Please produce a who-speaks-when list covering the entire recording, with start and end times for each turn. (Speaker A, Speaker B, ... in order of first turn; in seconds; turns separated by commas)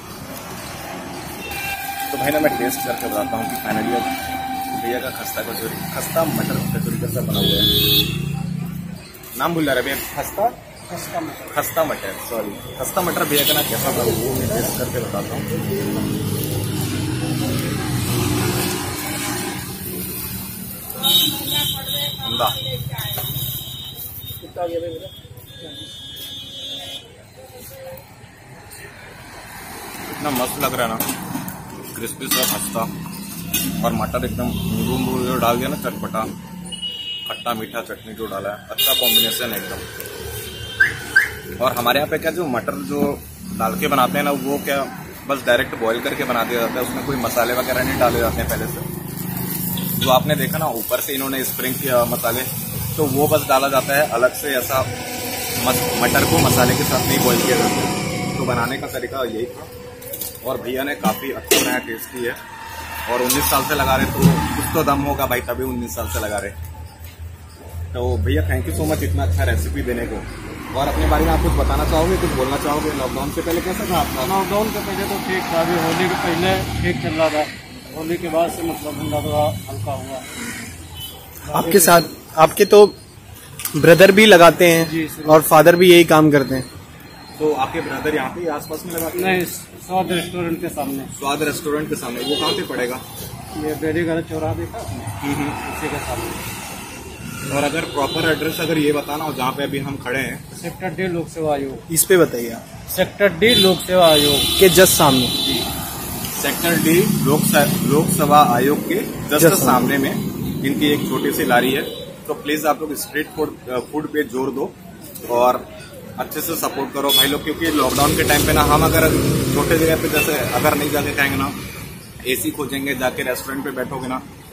Speaker A: 2.1-4.1, Speaker A: 4.7-7.7, Speaker A: 9.3-10.6, Speaker B: 10.9-11.7, Speaker A: 11.5-15.5, Speaker A: 22.1-22.8, Speaker B: 24.4-25.1, Speaker A: 30.2-31.1, Speaker A: 31.9-32.9, Speaker A: 33.8-36.3, Speaker A: 37.2-39.8, Speaker A: 41.6-48.9, Speaker A: 50.0-54.9, Speaker A: 55.6-59.7, Speaker A: 60.4-62.4, Speaker A: 63.1-66.5, Speaker A: 67.9-74.3, Speaker B: 74.2-80.3, Speaker B: 81.4-82.1, Speaker C: 81.5-83.0, Speaker C: 83.7-86.7, Speaker B: 84.8-85.8, Speaker A: 87.3-89.4, Speaker B: 89.1-91.1, Speaker A: 91.2-93.0, Speaker B: 93.5-96.4, Speaker A: 95.2-95.5, Speaker A: 97.5-100.4, Speaker B: 100.5-101.9, Speaker C: 101.9-102.6, Speaker B: 102.8-104.5, Speaker C: 104.6-105.3, Speaker A: 105.4-105.7, Speaker A: 106.3-115.7, Speaker C: 109.4-109.9, Speaker A: 116.2-121.6, Speaker A: 122.2-124.2